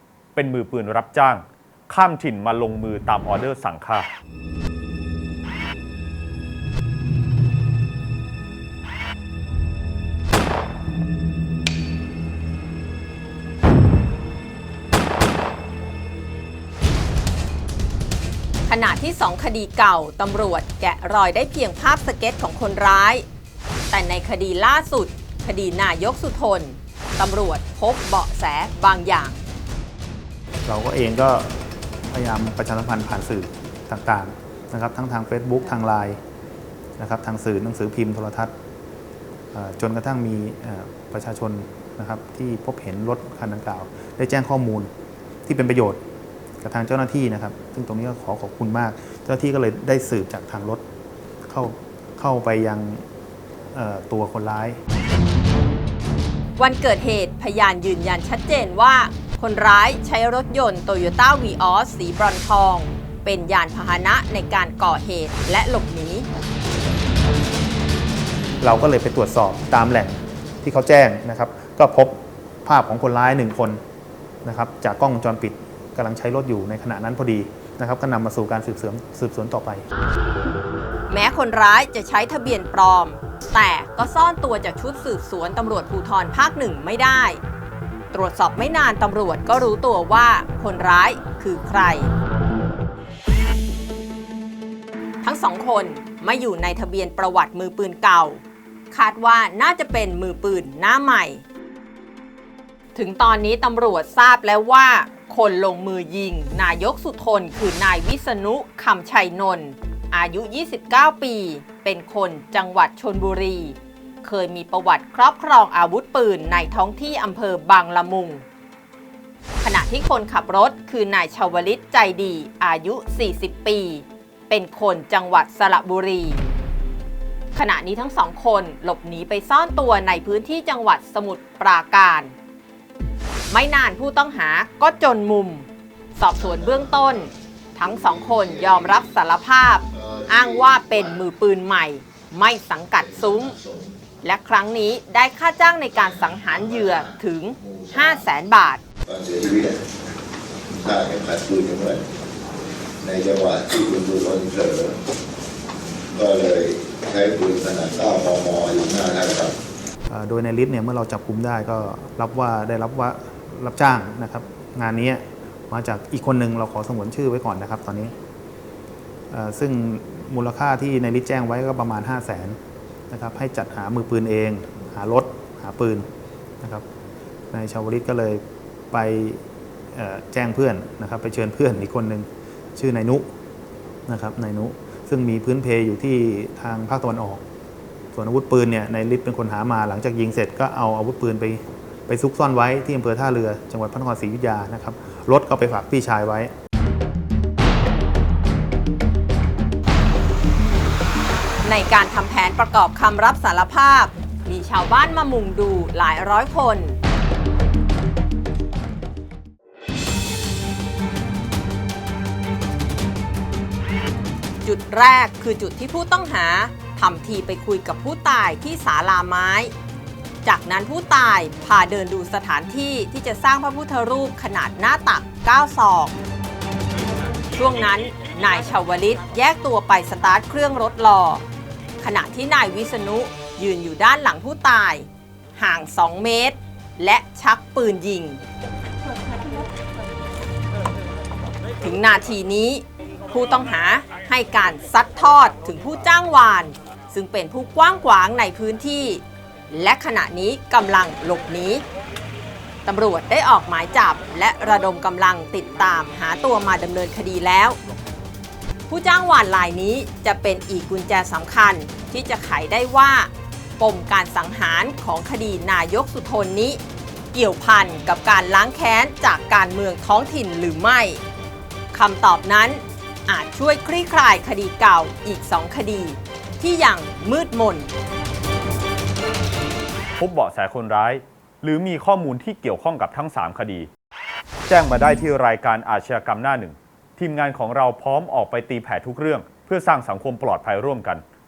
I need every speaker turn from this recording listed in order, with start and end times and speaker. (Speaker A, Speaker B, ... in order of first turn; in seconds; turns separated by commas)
Speaker A: 0.3-4.1, Speaker B: 18.7-23.2, Speaker B: 23.9-29.4, Speaker C: 30.7-31.6, Speaker C: 32.1-36.2, Speaker C: 37.0-38.5, Speaker C: 39.5-44.9, Speaker C: 45.5-46.0, Speaker C: 46.6-50.8, Speaker C: 51.5-53.0, Speaker C: 53.7-54.8, Speaker B: 56.6-66.3, Speaker C: 68.6-73.8, Speaker C: 74.4-79.8, Speaker B: 81.1-87.4, Speaker B: 88.1-92.1, Speaker B: 95.2-101.4, Speaker B: 103.0-118.5, Speaker B: 119.6-126.4, Speaker B: 127.5-132.3, Speaker B: 133.5-143.6, Speaker D: 136.4-137.3, Speaker D: 137.8-139.0, Speaker D: 139.9-141.2, Speaker D: 143.0-144.0, Speaker B: 144.2-148.8, Speaker D: 145.9-148.2, Speaker D: 149.1-149.9, Speaker D: 150.7-152.1, Speaker D: 153.0-155.0, Speaker D: 156.1-159.6, Speaker C: 160.1-168.1, Speaker C: 169.3-172.6, Speaker C: 173.1-176.1, Speaker C: 177.5-183.3, Speaker C: 184.1-187.4, Speaker C: 188.1-196.5, Speaker B: 201.6-207.0, Speaker B: 214.7-219.7, Speaker B: 220.4-226.1, Speaker B: 227.5-231.4, Speaker B: 232.0-238.4, Speaker B: 241.8-251.8, Speaker B: 252.8-257.8, Speaker B: 258.9-266.8, Speaker B: 267.3-271.2, Speaker B: 271.9-277.9, Speaker A: 280.2-283.9, Speaker A: 284.7-291.2